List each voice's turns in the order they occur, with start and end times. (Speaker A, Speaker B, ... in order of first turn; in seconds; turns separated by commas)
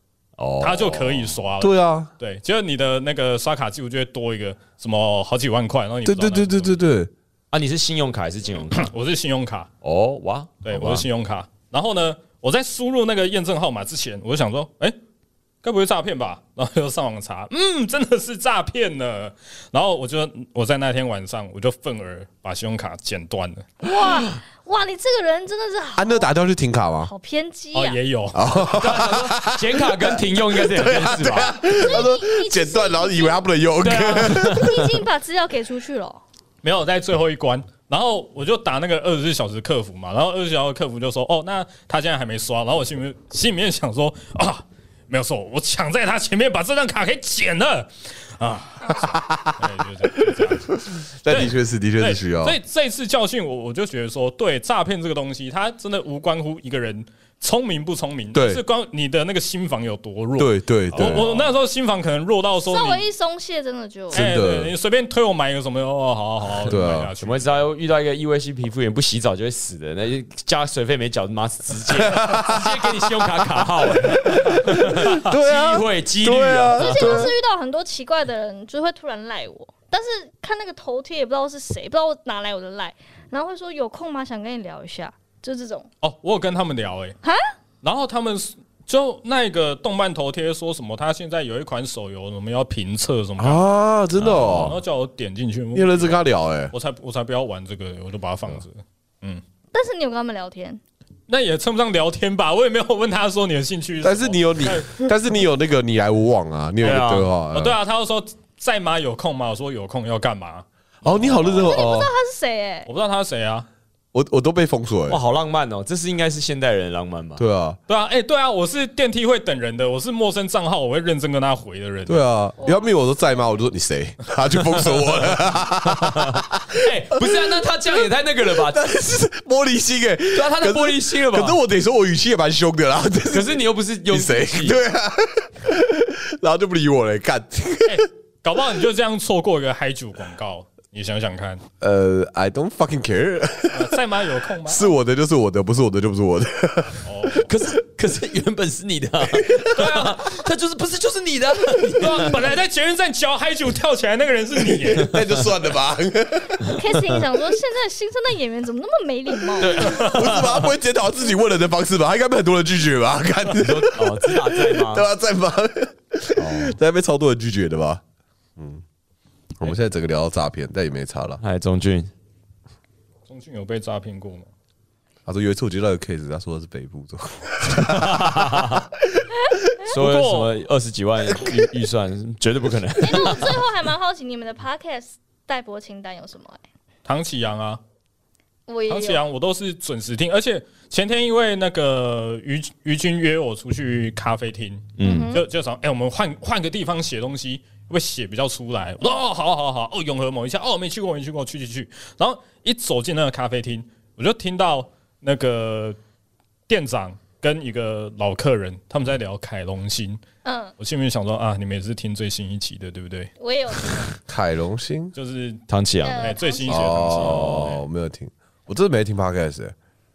Speaker A: 0.4-1.4, Speaker B: 0.6-6.8, Speaker C: 1.6-2.1, Speaker C: 6.0-7.1, Speaker A: 7.5-8.9, Speaker B: 8.7-9.7, Speaker A: 9.8-11.1, Speaker B: 10.6-15.0, Speaker B: 15.6-23.7, Speaker D: 23.8-26.3, Speaker C: 26.0-27.1, Speaker D: 27.0-28.0, Speaker B: 27.7-28.4, Speaker C: 28.3-34.9, Speaker A: 28.7-31.6, Speaker D: 31.4-33.5, Speaker B: 33.9-34.3, Speaker A: 33.9-34.7, Speaker D: 34.2-36.2, Speaker B: 36.6-63.0, Speaker C: 49.0-49.6, Speaker C: 50.1-52.6, Speaker C: 58.3-58.6, Speaker C: 60.4-61.3, Speaker A: 60.9-61.6, Speaker D: 62.6-64.3, Speaker B: 64.1-67.5, Speaker C: 64.1-64.7, Speaker C: 66.7-67.1, Speaker A: 66.7-77.3, Speaker C: 72.0-73.1, Speaker C: 74.3-77.3, Speaker D: 76.8-85.9, Speaker B: 86.0-87.2, Speaker D: 87.2-87.5, Speaker B: 87.8-93.6, Speaker C: 93.4-94.8, Speaker A: 94.2-94.8, Speaker B: 94.6-99.4, Speaker C: 95.7-96.7, Speaker D: 99.7-100.8, Speaker B: 101.3-105.1, Speaker C: 104.0-107.8, Speaker A: 106.8-107.3, Speaker B: 107.5-111.8, Speaker C: 111.0-112.1, Speaker D: 111.6-112.9, Speaker B: 112.9-113.7, Speaker C: 114.1-115.2, Speaker A: 115.1-117.4, Speaker C: 117.4-117.8, Speaker B: 117.9-122.2, Speaker C: 122.1-138.0, Speaker D: 122.6-122.9, Speaker A: 125.9-128.9, Speaker A: 130.3-131.6, Speaker A: 133.3-134.8, Speaker B: 137.9-141.6, Speaker C: 141.8-144.0, Speaker B: 143.7-144.9, Speaker C: 144.7-147.1, Speaker B: 147.0-147.5, Speaker A: 147.4-152.4, Speaker C: 149.4-149.7, Speaker B: 149.7-150.4, Speaker B: 151.7-155.2, Speaker C: 155.0-156.8, Speaker D: 156.7-160.0, Speaker A: 159.6-160.7, Speaker C: 159.8-168.0, Speaker B: 159.8-160.1, Speaker A: 163.5-165.1, Speaker A: 166.4-166.8, Speaker C: 168.6-168.8, Speaker C: 169.6-171.4, Speaker A: 171.4-172.1, Speaker B: 173.3-174.5, Speaker C: 175.3-178.7, Speaker A: 178.0-178.8, Speaker A: 179.9-183.6, Speaker B: 179.9-180.5, Speaker D: 183.0-186.6, Speaker B: 187.1-187.8, Speaker D: 188.7-189.2, Speaker B: 188.9-206.0, Speaker A: 195.0-195.4, Speaker D: 195.0-195.4, Speaker B: 206.7-210.2, Speaker D: 210.4-210.7, Speaker B: 210.8-213.3, Speaker D: 213.4-214.2, Speaker C: 214.3-215.1, Speaker B: 215.2-217.8, Speaker A: 215.7-216.4, Speaker D: 216.0-217.0, Speaker C: 216.7-219.8, Speaker A: 217.2-217.7